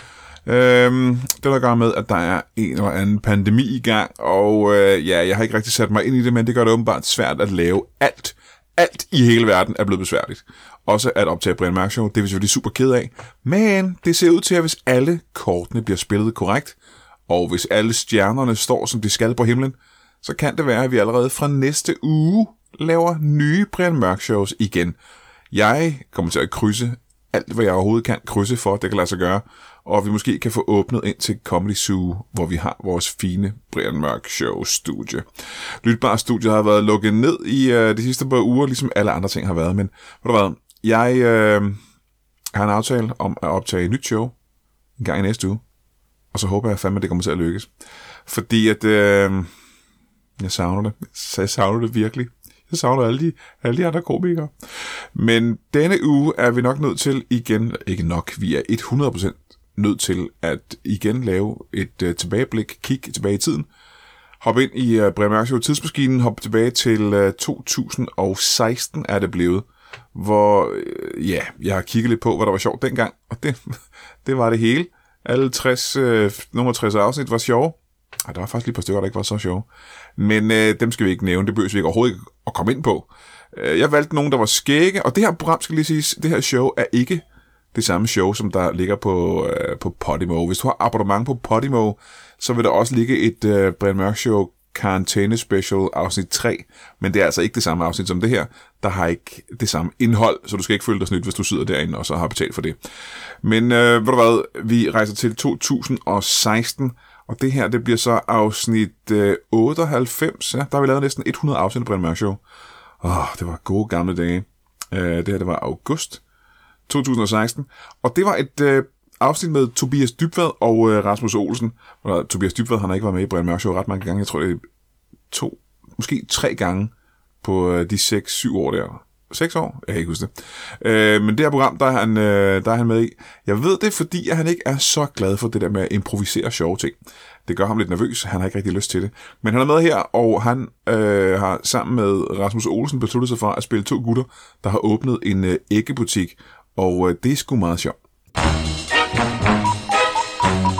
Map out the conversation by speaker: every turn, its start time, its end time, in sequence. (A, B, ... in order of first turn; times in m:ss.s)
0:00.4-0:25.0 A
0:25.5-0:41.8 A
0:42.5-0:44.3 A
0:45.0-0:45.6 A
0:46.3-0:47.7 A
0:48.2-0:49.5 A
0:50.4-0:54.5 A
0:55.1-1:03.7 A
1:04.4-1:42.8 A
1:43.4-1:52.4 A
1:53.0-1:56.2 A
1:56.9-2:04.6 A
2:05.3-2:28.0 A